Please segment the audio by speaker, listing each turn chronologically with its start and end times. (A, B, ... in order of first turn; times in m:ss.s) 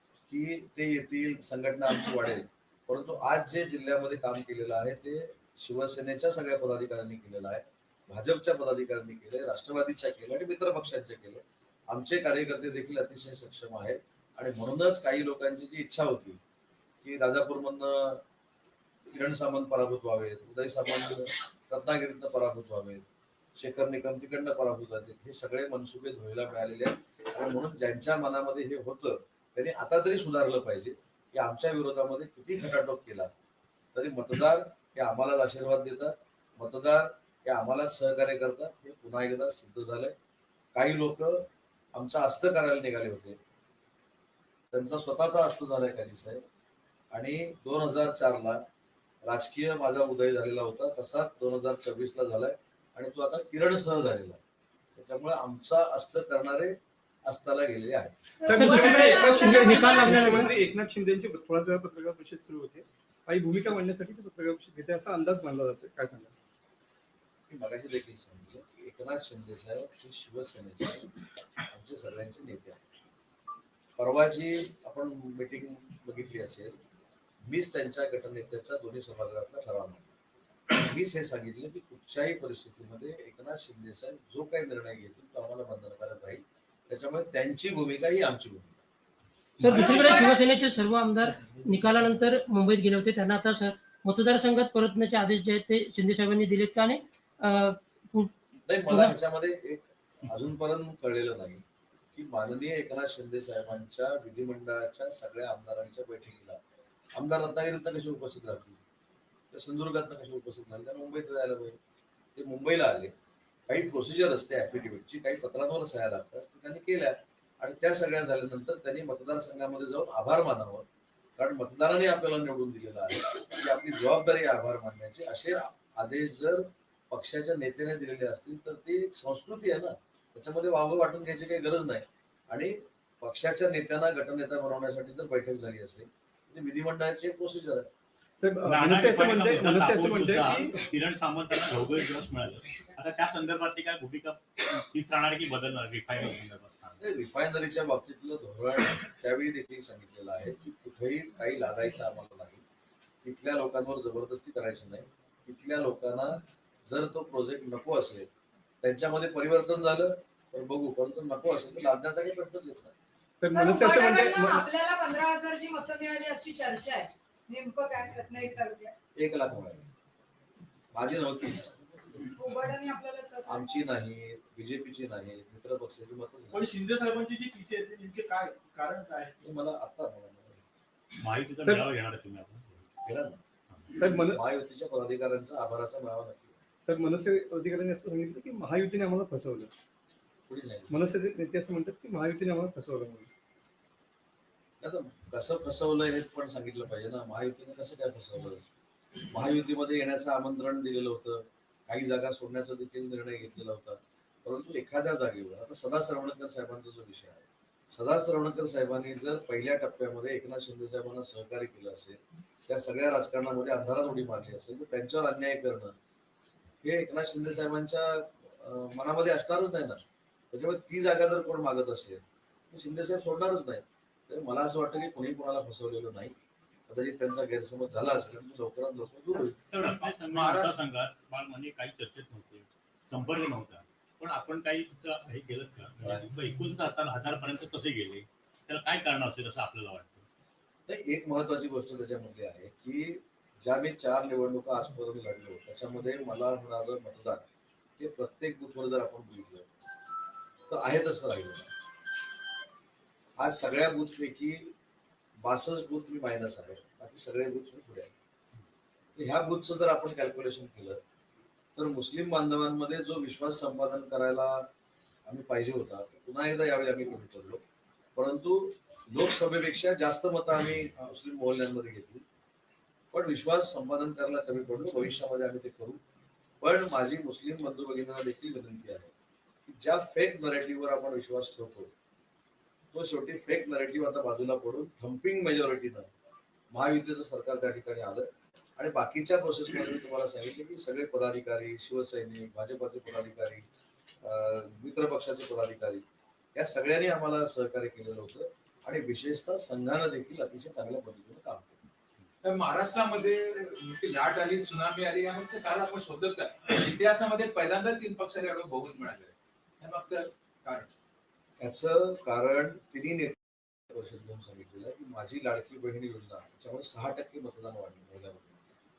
0:00.3-0:16.4 A
0:17.0-0:18.2 A
0:19.1-0:33.3 A
0:33.9-0:40.1 A
0:40.7-0:43.4 A
0:44.7-0:46.4 A
0:47.1-0:48.6 A
0:49.2-0:54.4 A
0:55.0-0:58.1 A
0:58.3-1:00.6 B
0:58.4-1:06.3 C
0:58.5-1:00.6 D
1:07.5-1:11.1 A
1:11.7-1:12.8 A
1:14.0-1:16.8 A
1:17.4-1:20.0 A
1:20.7-1:28.8 A
1:29.6-1:29.9 E
1:29.6-1:38.3 D
1:29.8-1:30.2 B
1:38.7-1:41.6 A
1:38.9-1:39.1 D
1:42.1-1:46.6 A
1:47.1-1:48.8 A
1:49.5-1:51.8 A
1:52.3-1:53.1 A
1:53.7-2:00.8 A
2:01.4-2:17.9 A
2:18.4-2:20.8 C
2:18.6-2:27.0 E
2:27.0-2:32.6 A
2:33.2-2:38.3 A
2:38.8-2:42.9 A
2:43.4-2:44.6 C
2:43.5-2:48.9 B
2:49.2-2:49.8 A
2:50.9-2:52.3 A
2:52.4-2:53.6 B
2:53.5-2:56.7 A
2:56.5-2:59.4 F
2:59.4-3:00.6 A
3:01.2-3:02.8 E
3:03.0-3:03.4 A
3:04.0-3:04.4 C
3:04.2-3:06.6 A
3:06.8-3:09.7 C
3:10.5-3:11.0 A
3:10.9-3:13.3 C
3:14.8-3:18.6 A
3:19.3-3:35.9 A
3:36.8-3:46.3 A
3:46.9-3:49.6 A
3:49.7-4:00.2 E
3:49.8-3:50.8 G
4:00.9-4:07.4 A
4:08.0-4:09.7 A
4:10.7-4:11.7 A
4:13.4-4:14.7 A
4:15.4-4:18.1 A
4:19.2-4:21.0 A
4:21.8-4:24.7 A
4:25.2-4:27.6 A
4:28.1-4:32.2 A
4:33.1-4:36.0 A
4:36.6-4:39.1 A
4:39.6-4:41.9 A
4:42.9-4:46.1 A
4:46.7-4:53.6 A
4:54.2-4:56.0 A
4:56.6-5:01.8 A
5:02.4-5:10.9 G
5:11.6-5:18.7 A